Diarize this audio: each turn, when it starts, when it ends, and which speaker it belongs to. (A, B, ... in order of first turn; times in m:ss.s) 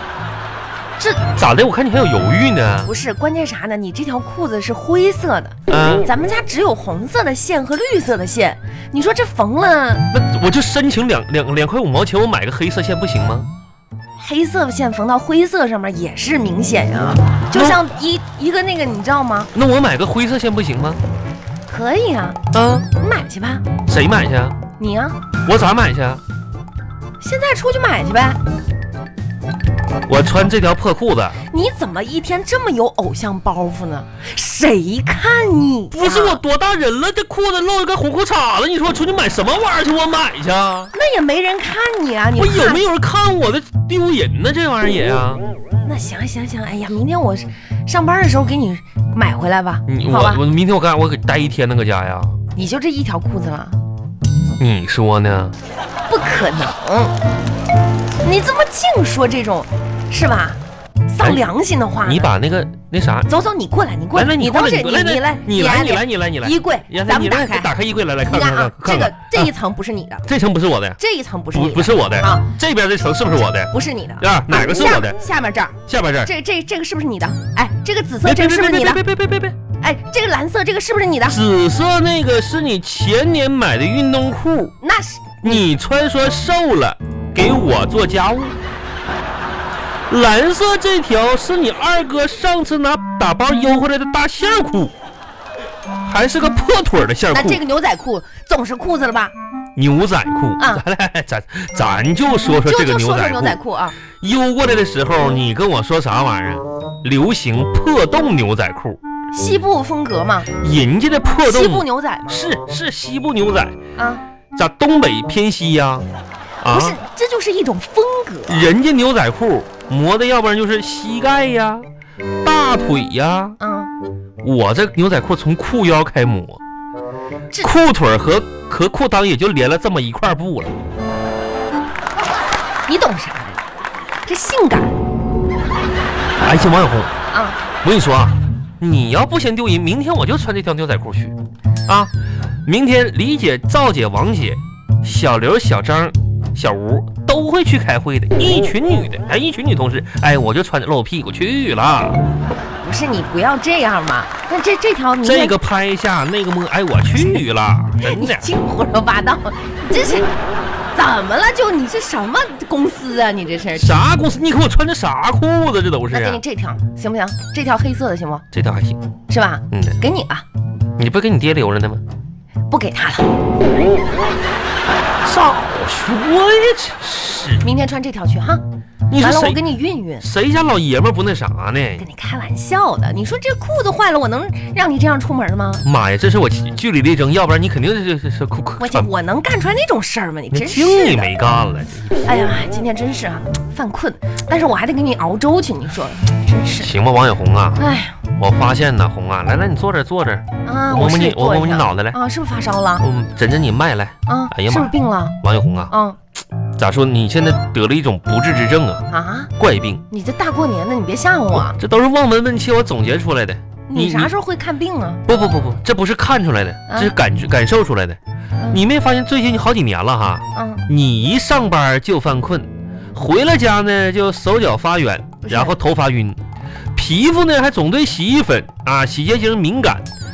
0:01.2-0:02.9 A
0:02.8-0:10.1 B
0:05.7-0:06.1 A
0:10.1-0:13.5 A
0:14.2-0:19.5 B
0:17.5-0:17.8 A
0:19.5-0:21.0 A
0:21.7-0:22.4 B
0:22.5-0:22.9 A
0:23.0-0:23.7 B
0:23.9-0:24.6 A
0:24.8-0:25.2 B
0:25.5-0:26.2 A
0:27.2-0:28.4 B
0:30.1-0:31.4 A
0:31.5-0:36.4 B
0:35.9-0:40.9 A
0:40.9-0:42.8 B
0:42.4-0:45.4 A
0:45.8-0:50.4 B
0:49.9-0:52.4 A
0:52.6-0:53.8 B
0:54.6-0:55.6 A
0:56.1-0:57.2 B
0:58.2-1:02.3 B
1:01.2-1:01.5 A
1:02.0-1:03.3 A
1:03.3-1:07.7 B
1:04.2-1:09.5 A
1:08.3-1:10.3 B
1:10.3-1:11.0 A
1:11.0-1:12.5 B
1:11.5-1:15.2 A
1:13.7-1:19.0 B
1:15.9-1:16.3 A
1:18.2-1:19.6 A
1:19.8-1:21.4 B
1:21.3-1:24.8 A
1:24.8-1:25.6 B
1:25.4-1:28.6 A
1:30.1-1:34.9 A
1:36.0-1:37.6 A
1:37.3-1:39.3 B
1:39.8-1:43.6 A
1:40.6-1:40.8 B
1:42.5-1:44.0 B
1:44.2-1:49.0 A
1:49.3-1:50.5 B
1:50.6-1:53.8 A
1:51.4-1:52.4 B
1:54.0-1:54.2 B
1:54.5-1:56.1 A
1:56.6-1:57.0 A
1:56.6-1:58.7 B
1:58.5-2:01.8 A
2:02.4-2:03.6 A
2:03.6-2:03.9 B
2:04.4-2:06.6 A
2:07.6-2:10.8 A
2:12.9-2:13.6 B
2:14.3-2:15.0 B
2:16.4-2:17.1 A
2:17.3-2:17.6 B
2:17.8-2:21.4 A
2:22.7-2:32.2 A
2:32.8-2:35.6 B
2:35.2-2:38.5 A
2:38.0-2:40.3 B
2:40.9-2:44.0 B
2:43.8-2:46.4 A
2:46.1-2:48.4 B
2:48.5-2:49.0 A
2:49.3-2:50.4 B
2:49.7-2:50.0 A
2:51.0-2:52.0 A
2:52.7-2:53.3 B
2:55.2-2:57.7 A
2:57.6-2:58.6 B
2:59.1-2:59.6 A
2:59.2-3:00.3 B
3:00.2-3:02.1 A
3:02.0-3:05.8 B
3:05.8-3:09.1 A
3:08.8-3:11.3 B
3:10.5-3:12.3 A
3:12.2-3:16.9 B
3:16.8-3:17.8 A
3:17.8-3:18.2 B
3:18.4-3:22.2 A
3:20.6-3:23.1 B
3:23.0-3:25.9 A
3:24.3-3:25.4 B
3:25.9-3:26.2 B
3:26.8-3:29.1 A
3:29.1-3:29.5 B
3:29.6-3:30.0 A
3:30.1-3:31.8 B
3:31.5-3:34.3 A
3:33.9-3:35.2 B
3:35.3-3:38.2 A
3:38.7-3:46.4 A
3:40.6-3:40.8 B
3:45.4-3:45.8 B
3:47.0-3:50.1 A